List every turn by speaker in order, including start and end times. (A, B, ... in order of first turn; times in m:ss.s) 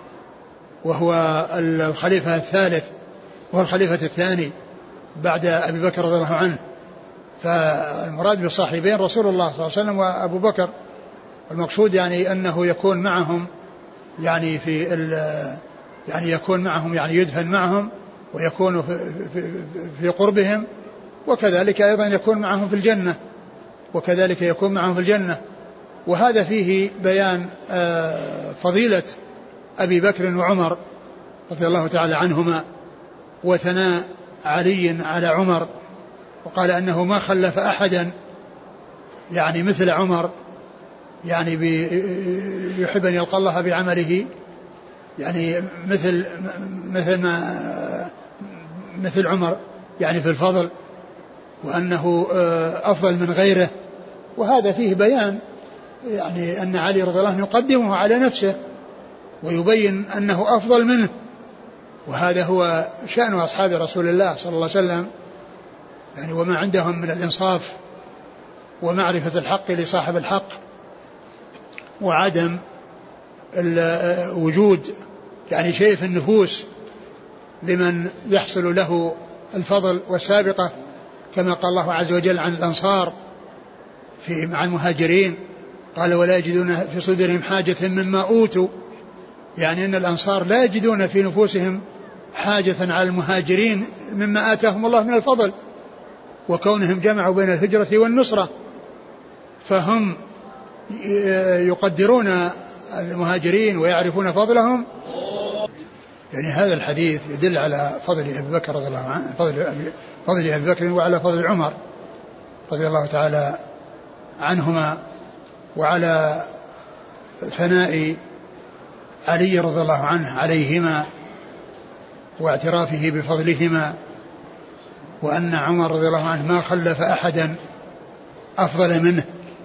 0:00.8-0:02.9 A
0:03.5-0:04.5 A
0:05.2-0:06.6 A
0:07.4-0:10.7 A
0:11.5-0:13.5 A
0:14.2-0:20.6 A
0:21.2-0:23.2 A
0:23.9-0:25.4 A
0:26.0-0:29.2 A
0:29.8-0:30.8 A
0:31.5-0:32.6 A
0:33.4-0:35.7 A
0:36.4-0:38.1 A
0:39.3-0:40.3 A
0:41.2-0:44.3 A
0:45.2-0:50.7 A
0:51.6-0:53.7 A
0:54.4-0:55.4 A
0:56.0-0:58.6 A
0:59.4-1:01.1 A
1:02.0-1:05.1 A
1:06.2-1:07.8 A
1:08.8-1:10.6 A
1:12.0-1:12.6 A
1:13.5-1:14.9 A
1:15.5-1:16.7 A
1:17.6-1:20.7 A
1:21.3-1:23.1 A
1:24.2-1:25.4 A
1:25.9-1:28.7 A
1:29.6-1:31.8 A
1:32.3-1:35.5 A
1:36.5-1:38.5 A
1:39.6-1:40.2 A
1:40.9-1:44.8 A
1:46.3-1:51.7 A
1:52.7-1:53.6 A
1:54.4-1:55.0 A
1:55.8-1:56.5 A
1:57.4-1:58.2 A
1:59.2-2:01.0 A
2:02.4-2:03.9 A
2:05.2-2:07.6 A
2:08.6-2:09.2 A